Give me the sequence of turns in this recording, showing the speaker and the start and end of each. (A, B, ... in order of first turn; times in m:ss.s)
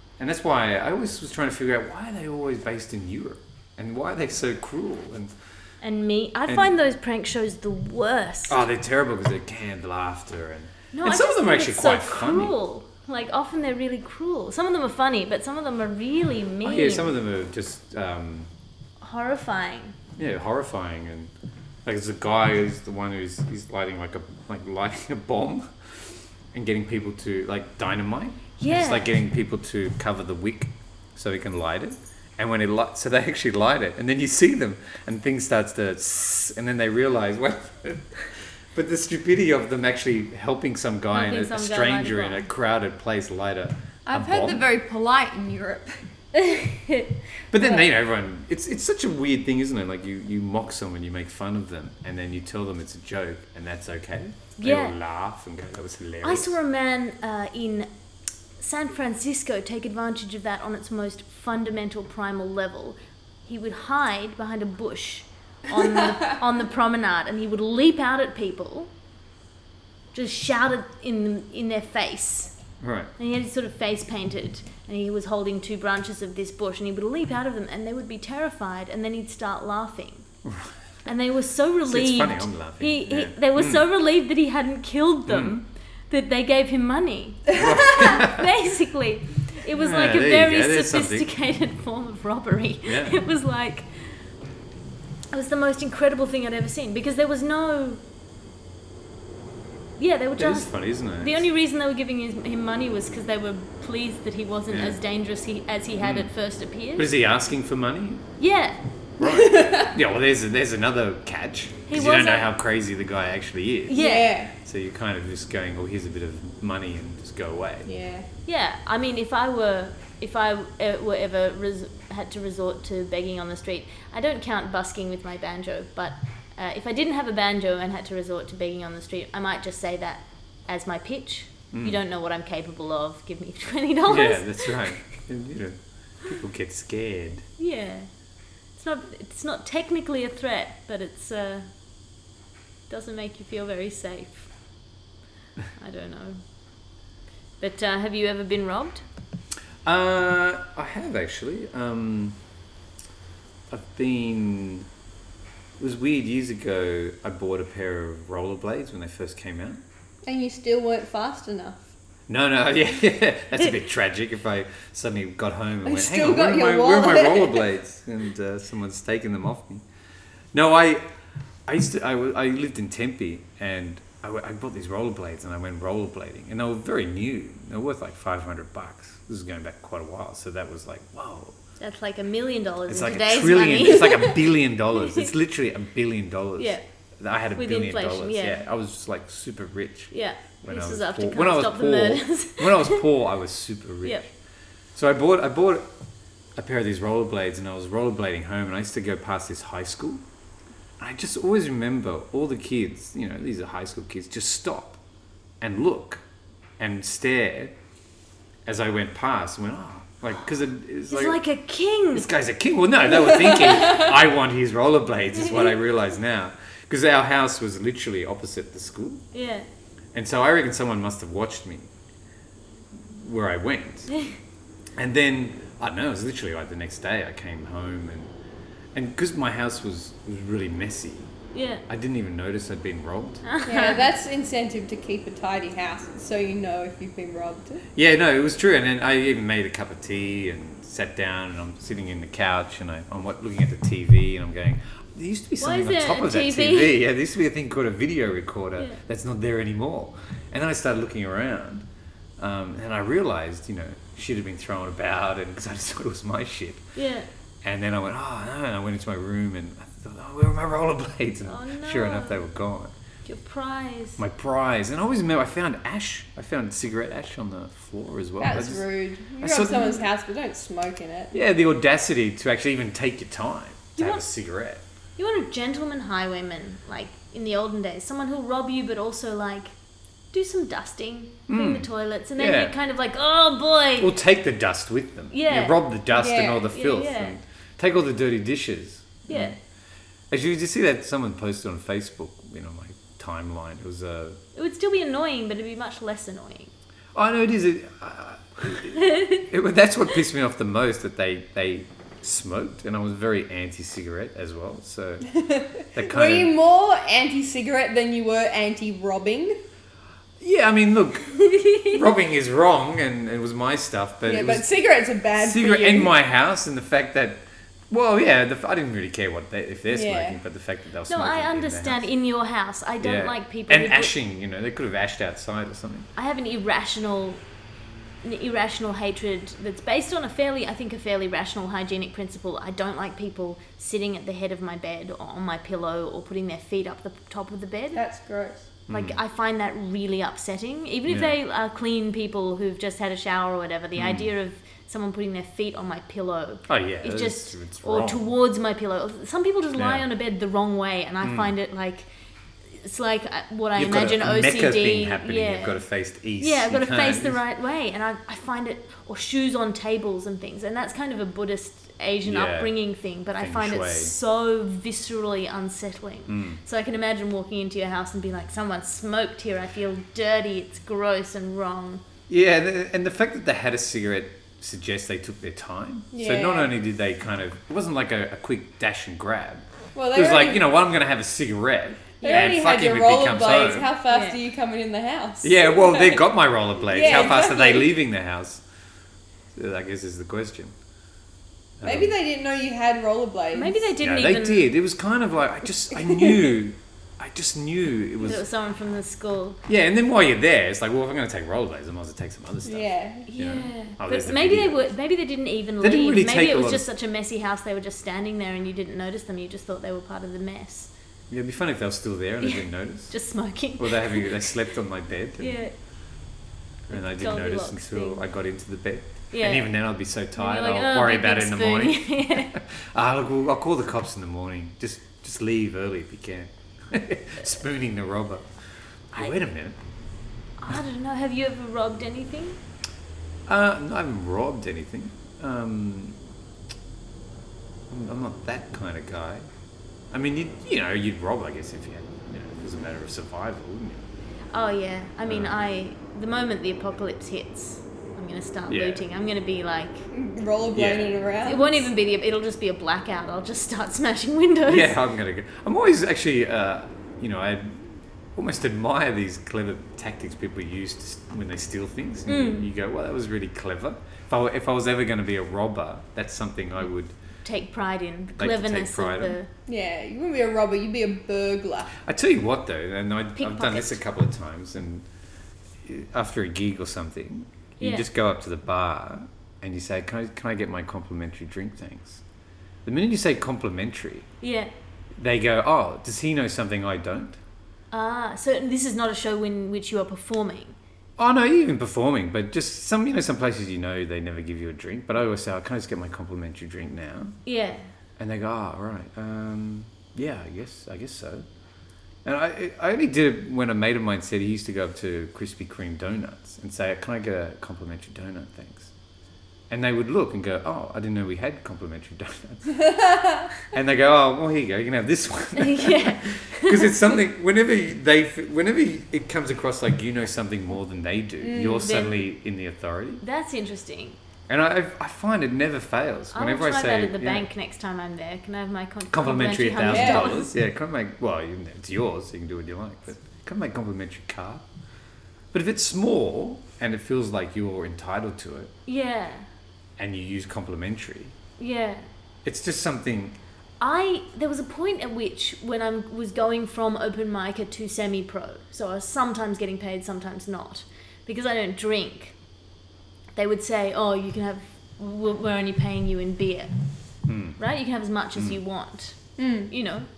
0:00.2-0:05.3 A
0:05.8-0:08.6 B
0:08.5-0:12.6 A
0:10.9-0:17.1 B
0:16.6-0:18.5 A
0:19.0-0:20.0 B
0:20.2-0:21.3 A
0:21.8-0:44.6 A
0:28.6-0:29.1 B
0:41.1-0:42.5 B
0:44.1-0:46.1 C
0:46.3-0:47.8 B
0:47.5-0:56.6 A
0:54.6-0:55.0 B
0:56.2-0:57.9 B
0:58.6-1:08.9 B
1:10.1-1:12.5 B
1:12.8-1:13.1 A
1:13.2-1:20.3 B
1:20.4-1:20.7 A
1:21.1-1:34.2 B
1:21.9-1:23.8 A
1:25.3-1:25.6 A
1:27.6-1:28.4 A
1:29.7-1:31.3 A
1:32.9-1:33.2 A
1:35.3-1:38.0 B
1:40.0-1:47.1 B
1:40.4-1:41.5 A
1:44.7-1:45.0 A
1:46.0-1:46.3 A
1:47.0-1:48.2 A
1:48.4-1:48.8 B
1:49.2-1:54.0 A
1:49.2-1:49.9 C
1:51.9-1:52.5 B
1:53.9-1:54.4 B
1:53.9-1:54.5 C
1:54.6-1:57.9 A
1:57.8-1:58.3 C
1:58.5-2:15.1 B
2:11.7-2:12.0 A
2:14.1-2:17.5 A
2:17.6-2:18.1 B
2:18.7-2:21.7 B
2:22.9-2:24.5 B
2:25.8-2:26.4 B
2:27.6-2:29.0 B
2:29.8-2:32.4 A
2:33.7-2:34.9 A
2:35.8-2:39.8 A
2:40.2-2:41.8 C
2:42.3-2:49.8 A
2:45.8-2:47.7 C
2:50.5-2:51.0 A
2:51.7-3:01.6 A
3:01.8-3:05.3 B
3:02.9-3:14.3 A
3:06.6-3:06.8 B
3:07.6-3:08.6 B
3:10.1-3:13.0 B
3:15.0-3:15.9 A
3:16.6-3:20.2 A
3:21.0-3:25.0 A
3:25.6-3:26.2 A
3:26.8-3:27.8 A
3:28.7-3:31.4 A
3:31.1-3:32.3 B
3:32.1-3:39.2 A
3:35.4-3:35.7 B
3:39.3-3:39.7 B
3:40.1-3:41.9 A
3:43.0-3:44.1 A
3:45.0-3:48.3 A
3:48.9-3:51.3 A
3:51.5-3:51.8 B
3:51.9-3:53.4 A
3:53.4-3:54.0 B
3:53.6-3:57.8 C
3:58.0-4:11.9 A
4:05.6-4:07.0 B
4:12.4-4:16.8 A
4:17.0-4:17.3 B
4:17.6-4:22.9 A
4:21.4-4:22.4 B
4:23.2-4:24.2 B
4:24.2-4:28.8 A
4:28.4-4:31.4 C
4:29.4-4:30.0 A
4:31.3-4:34.8 A
4:34.0-4:34.2 B
4:35.2-4:39.8 B
4:40.3-4:44.1 B
4:41.5-4:42.7 A
4:44.0-4:49.6 A
4:45.3-4:45.8 B
4:46.1-4:46.7 C
4:46.7-4:47.4 B
4:49.3-4:49.6 B
4:50.3-4:54.4 A
4:54.6-4:56.7 B
4:57.2-5:05.3 A
4:58.8-4:59.5 B
5:05.3-5:09.6 C
5:05.9-5:06.5 A
5:10.4-5:14.7 A
5:11.4-5:12.0 B
5:14.3-5:16.1 C
5:15.3-5:22.1 A
5:19.9-5:20.4 C
5:21.1-5:24.2 B
5:23.0-5:26.1 A
5:26.2-5:27.4 B
5:28.2-5:38.0 B
5:37.9-5:38.7 C
5:38.9-5:39.2 A
5:38.9-5:52.1 B
5:41.1-5:41.4 A
5:44.0-5:44.3 A
5:46.7-5:48.2 A
5:49.8-5:50.0 A
5:51.2-5:51.5 A
5:52.8-5:55.8 B
5:53.8-5:57.4 A
5:56.4-6:12.0 B
6:02.2-6:02.8 A
6:03.4-6:04.2 A
6:06.3-6:06.6 A
6:12.3-6:23.9 A
6:16.1-6:16.7 C
6:20.0-6:20.6 C
6:22.2-6:26.3 C
6:24.1-6:24.4 B
6:25.4-6:28.6 A
6:26.8-6:27.9 C
6:29.5-6:30.8 A
6:31.8-6:32.1 A
6:31.8-6:33.9 C
6:33.5-6:34.7 B
6:34.0-6:38.4 A
6:38.2-6:39.6 B
6:39.7-6:44.9 A
6:42.6-6:43.3 C
6:43.3-6:50.9 B
6:45.8-6:46.8 A
6:51.3-6:53.2 A
6:52.4-6:54.6 B
6:53.8-6:55.6 A
6:55.4-6:55.7 B
6:56.9-7:08.5 A
6:56.9-6:58.2 B
6:59.3-6:59.8 B
7:00.4-7:02.6 B
7:09.1-7:09.8 A
7:10.6-7:12.6 B
7:13.5-7:16.2 A
7:17.9-7:19.5 A
7:20.1-7:24.1 A
7:24.5-7:30.0 B
7:25.3-7:25.6 A
7:28.7-7:29.0 A
7:30.1-7:31.9 C
7:30.7-7:31.1 A
7:31.4-7:35.0 B
7:34.7-7:47.1 A
7:42.3-7:42.7 B
7:47.4-7:49.5 B
7:48.4-7:49.4 A
7:49.7-7:52.0 C
7:52.0-7:55.1 A
7:53.4-7:54.0 B
7:55.8-8:02.2 A
7:57.8-7:58.1 B
8:02.8-8:04.3 A
8:04.4-8:04.7 B
8:05.2-8:07.4 A
8:07.9-8:10.8 B
8:11.2-8:17.4 A
8:17.4-8:17.8 B
8:18.2-8:21.4 A
8:22.2-8:28.9 A
8:29.7-8:32.9 A
8:32.9-8:33.5 C
8:33.6-8:43.2 A
8:35.6-8:37.1 B
8:41.4-8:42.1 C
8:41.8-8:42.2 B
8:43.2-8:44.2 B
8:44.5-8:47.5 A
8:46.3-8:50.5 B
8:49.1-8:54.6 A
8:49.9-8:50.4 C
8:55.5-8:58.7 A
8:58.9-8:59.5 B
9:00.0-9:01.4 A
9:01.6-9:02.1 B
9:02.4-9:03.4 A
9:03.8-9:12.4 B
9:13.4-9:16.7 B
9:17.3-9:17.6 A
9:17.6-9:20.1 B
9:19.4-9:19.7 C